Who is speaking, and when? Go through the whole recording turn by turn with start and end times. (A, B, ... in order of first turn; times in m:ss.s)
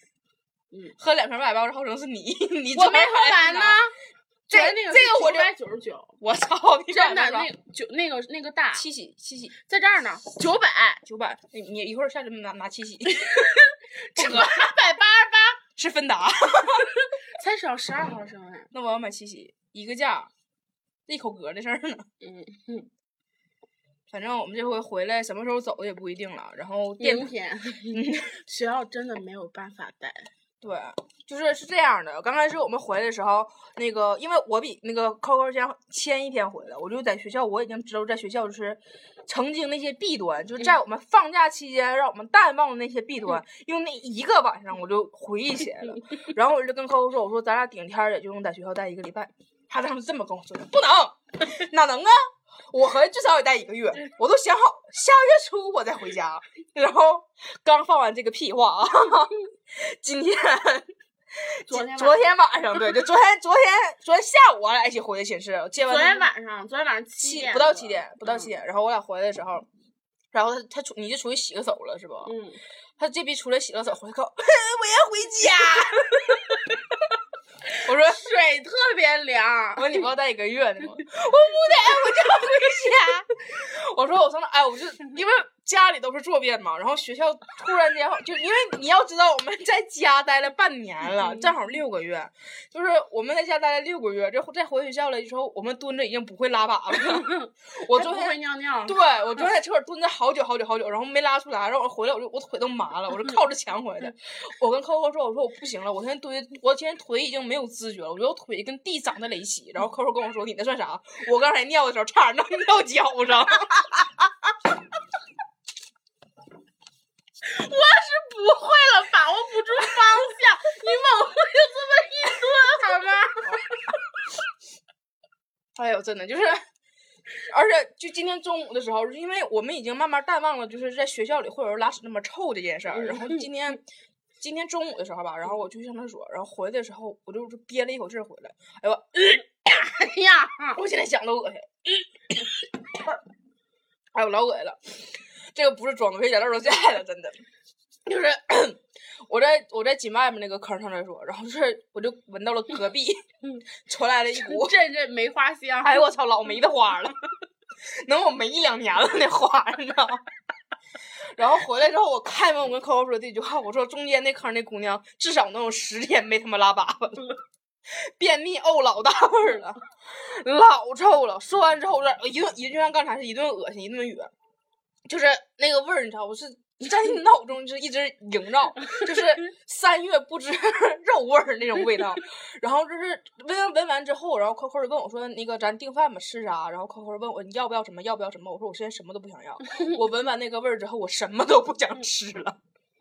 0:01.0-0:03.8 A
0:02.7-0:04.0 B
0:04.5-0:06.1 B
0:04.5-0:05.5 A
0:06.2-0:07.5 A
0:06.9-0:08.8 B
0:08.7-0:09.5 A
0:09.6-0:11.0 B
0:11.0-0:13.4 A
0:13.2-0:15.6 B
0:14.2-0:14.6 A
0:15.8-0:17.0 A
0:17.3-0:18.7 B
0:18.7-0:20.3 A
0:21.1-0:22.0 A
0:22.2-0:22.9 B
0:24.1-0:27.3 A
0:27.0-0:30.3 B
0:27.9-0:28.3 A
0:30.6-0:52.2 A
0:52.7-1:00.9 A
1:01.6-1:06.3 A
1:01.7-1:02.4 B
1:05.8-1:08.5 B
1:07.2-1:09.7 A
1:10.3-1:12.3 A
1:12.2-1:12.6 B
1:13.0-1:16.4 A
1:17.8-1:18.2 A
1:18.1-1:20.0 B
1:19.8-1:54.3 A
1:31.2-1:31.5 B
1:37.0-1:39.0 B
1:57.4-2:03.7 B
2:05.7-2:06.6 A
2:07.5-2:13.8 A
2:14.4-2:19.4 A
2:19.5-2:20.8 B
2:20.7-2:21.7 A
2:24.1-2:27.4 A
2:28.0-2:33.2 A
2:33.8-2:34.8 A
2:34.3-2:36.1 B
2:35.8-2:37.2 A
2:38.0-2:40.2 A
2:41.3-2:47.3 A
2:47.9-2:54.3 A
2:55.1-3:12.6 A